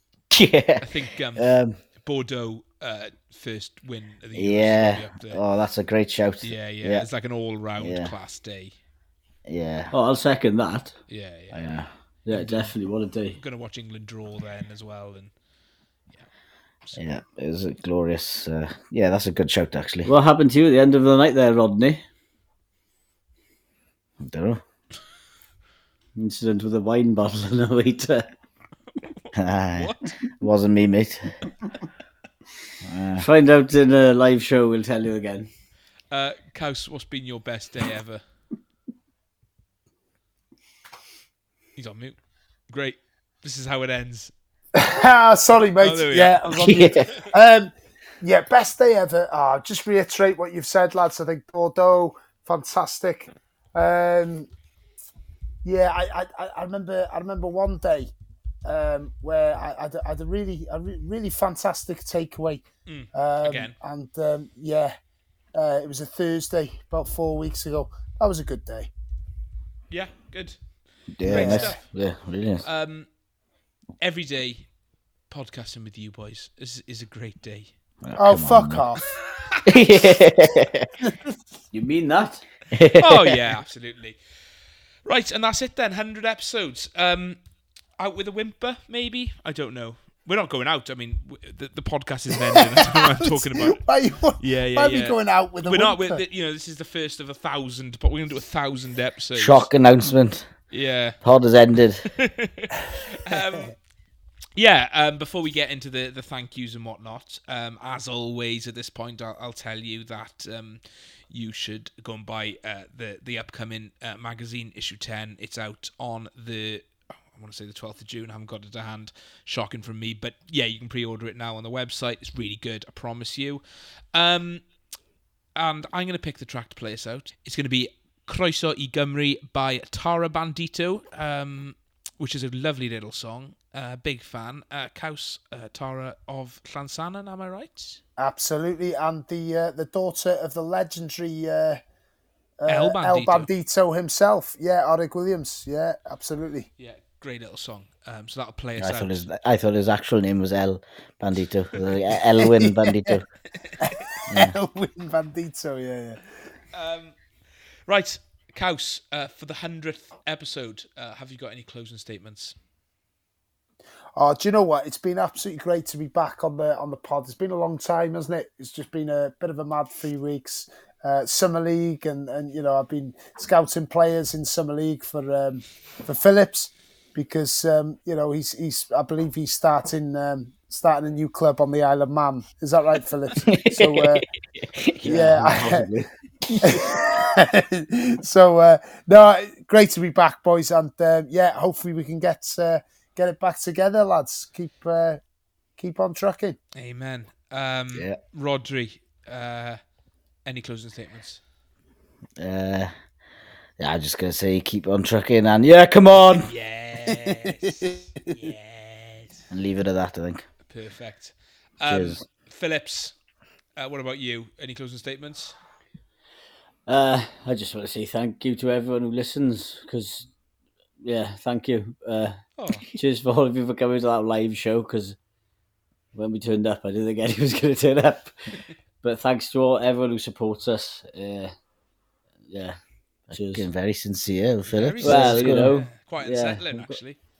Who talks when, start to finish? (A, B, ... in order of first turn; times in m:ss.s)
0:00.3-0:00.8 A
0:00.8-0:05.4 B
0:01.4-0:01.8 A
0:04.4-0:07.1 A
0:06.4-0:08.7 B
0:07.8-0:08.1 A
0:09.4-0:09.9 A
0:09.9-0:11.0 C
0:11.1-0:11.7 B
0:11.5-0:11.9 A
0:12.2-0:13.4 C
0:12.3-0:12.7 B
0:13.3-0:15.3 B
0:16.8-0:17.1 B
0:17.0-0:20.1 A
0:20.0-0:22.0 C
0:24.2-0:24.6 A
0:26.2-0:28.2 C
0:29.0-0:30.1 B
0:29.4-0:31.4 A
0:32.8-0:33.2 A
0:33.2-0:35.5 C
0:36.1-0:38.2 B
0:41.8-0:44.3 B
0:44.7-0:54.5 D
0:45.8-0:47.3 B
0:46.6-0:47.0 A
0:55.6-0:58.1 D
0:58.6-1:04.9 D
1:02.8-1:03.7 B
1:05.5-1:08.9 D
1:09.9-1:10.6 B
1:11.2-1:12.6 A
1:11.2-1:12.0 B
1:11.2-1:11.8 D
1:12.6-1:13.1 B
1:14.0-1:14.7 B
1:15.3-1:17.7 B
1:18.0-1:18.8 A
1:18.2-1:19.0 D
1:19.7-1:20.9 A
1:19.7-1:20.0 B
1:21.7-1:22.4 C
1:22.7-1:23.4 A
1:22.9-1:24.2 B
1:25.0-1:27.4 B
1:28.0-1:39.7 B
1:32.9-1:36.2 D
1:39.4-1:40.5 A
1:40.7-1:41.2 B
1:41.2-1:42.1 A
1:42.2-1:43.8 B
1:44.6-2:04.7 B
2:05.5-2:18.0 B
2:18.2-2:21.8 D
2:22.6-2:26.7 D
2:22.7-2:23.5 B
2:26.8-2:29.3 B
2:28.8-2:33.2 A
2:33.6-2:34.0 B
2:33.8-2:36.2 D
2:34.3-2:34.6 A
2:36.7-2:37.2 B
2:37.9-2:42.6 B
2:44.2-3:04.2 D
3:03.5-3:04.2 A
3:04.7-3:05.4 A
3:05.0-3:06.1 C
3:05.0-3:05.9 D
3:06.4-3:06.8 A
3:06.6-3:15.2 D
3:15.8-3:16.6 D
3:16.7-3:19.8 B
3:17.9-3:18.2 A
3:20.4-3:21.4 B
3:22.4-3:22.9 A
3:23.8-3:26.5 A
3:26.4-3:29.5 B
3:27.2-3:27.7 D
3:29.5-3:30.5 A
3:30.7-3:33.2 B
3:31.8-3:32.2 A
3:33.7-3:35.6 B
3:36.9-3:40.3 C
3:41.0-3:45.2 C
3:42.6-3:42.8 B
3:46.1-3:51.5 C
3:52.4-3:52.8 C
3:53.3-3:53.6 C
3:53.3-3:55.7 A
3:54.6-3:57.2 B
3:55.0-3:57.0 C